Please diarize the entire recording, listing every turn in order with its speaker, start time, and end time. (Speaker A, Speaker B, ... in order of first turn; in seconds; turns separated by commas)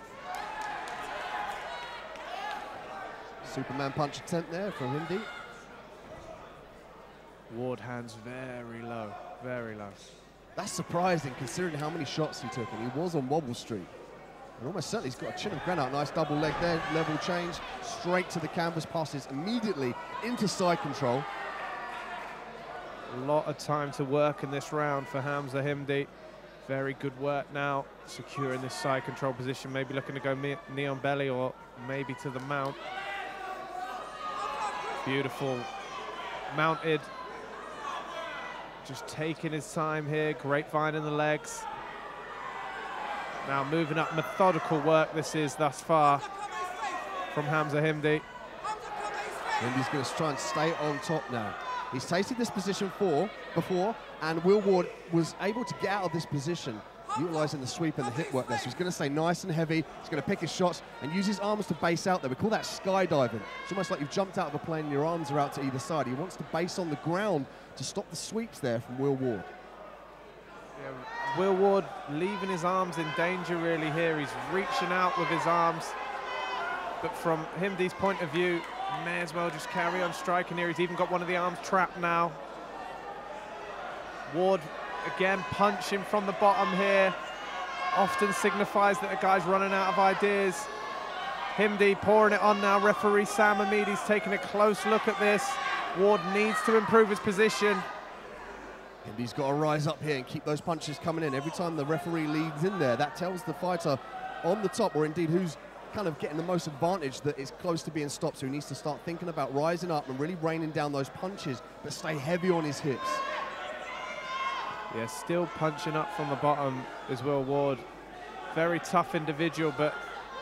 Speaker A: 3.4-5.3, Speaker B: 7.5-10.0, Speaker A: 10.6-13.9, Speaker A: 14.6-21.3, Speaker B: 23.1-26.1, Speaker B: 26.6-32.8, Speaker B: 35.0-35.7, Speaker B: 36.5-37.1, Speaker B: 38.8-41.7, Speaker B: 43.4-46.3, Speaker B: 47.3-48.3, Speaker A: 49.6-69.5, Speaker B: 70.8-76.0, Speaker B: 77.0-82.4, Speaker B: 84.3-87.2, Speaker B: 87.9-90.7, Speaker B: 91.5-97.9, Speaker A: 99.0-113.2, Speaker B: 114.9-117.8, Speaker B: 118.5-120.0